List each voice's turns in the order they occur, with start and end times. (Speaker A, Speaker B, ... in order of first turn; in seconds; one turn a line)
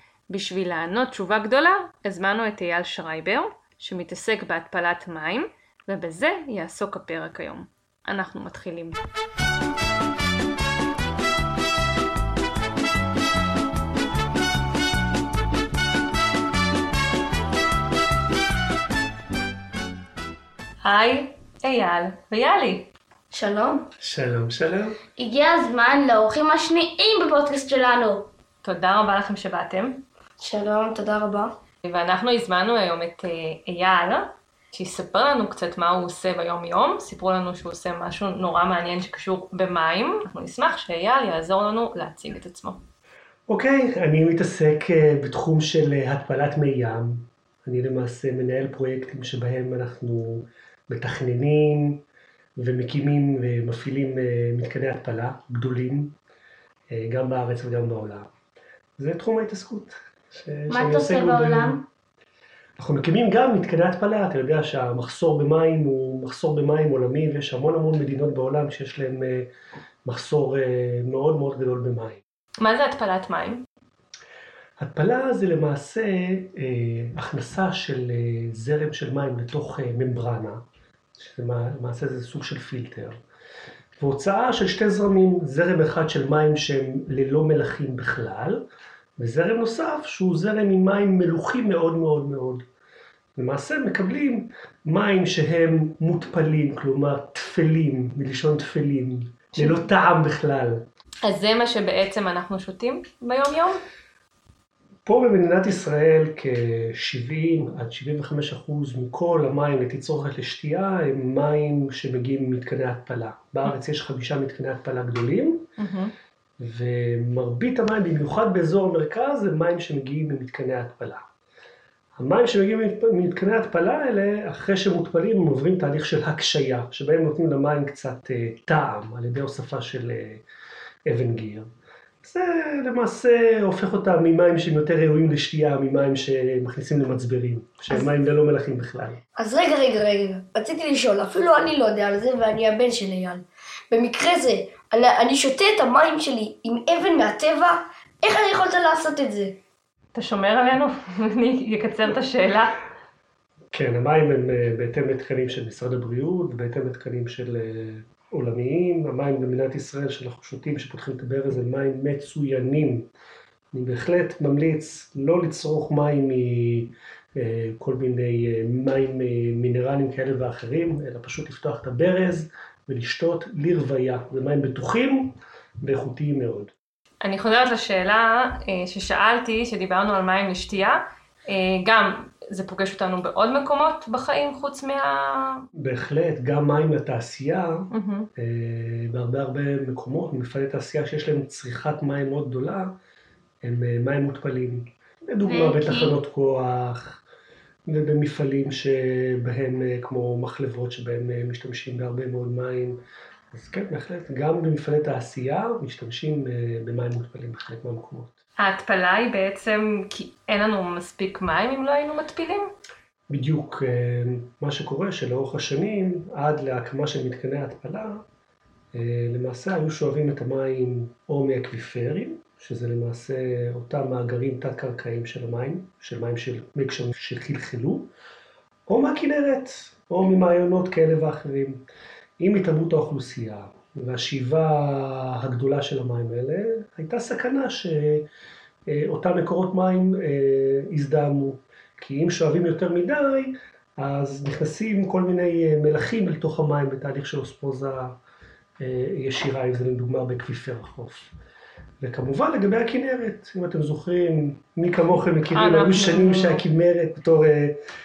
Speaker A: 0.3-9.0
Speaker A: 20.8-22.9
Speaker B: 23.3-23.8
Speaker C: 24.0-25.0
Speaker D: 25.2-28.3
Speaker A: 28.6-30.0
Speaker B: 30.4-31.5
Speaker A: 31.9-42.8
Speaker C: 43.5-52.0
Speaker C: 52.6-56.1
Speaker C: 56.9-58.3
Speaker C: 59.0-61.8
Speaker D: 60.7-61.8
Speaker C: 62.8-69.5
Speaker C: 70.0-72.2
Speaker A: 72.6-73.6
Speaker C: 74.8-80.6
Speaker C: 81.2-83.2
Speaker C: 84.0-88.6
Speaker C: 89.2-92.6
Speaker C: 93.3-100.8
Speaker A: 101.2-103.8
Speaker C: 105.0-115.7
Speaker A: 115.8-116.1
Speaker C: 116.6-121.2
Speaker C: 122.2-130.4
Speaker C: 131.1-131.7
Speaker C: 132.2-139.2
Speaker B: 139.4-149.6
Speaker A: 150.1-152.8
Speaker C: 153.7-163.1
Speaker C: 163.7-176.7
Speaker A: 177.2-185.6
Speaker C: 185.8-187.8
Speaker A: 187.9-188.3
Speaker C: 188.4-192.9
Speaker C: 193.6-197.2
Speaker D: 195.5-196.1
Speaker C: 197.9-203.0
Speaker C: 203.5-208.3
Speaker A: 208.6-212.7
Speaker C: 213.3-218.2
Speaker C: 218.9-228.1
Speaker C: 228.9-231.8
Speaker C: 232.4-238.2
Speaker C: 238.9-248.1
Speaker C: 248.8-251.3
Speaker C: 252.0-257.8
Speaker A: 255.5-256.6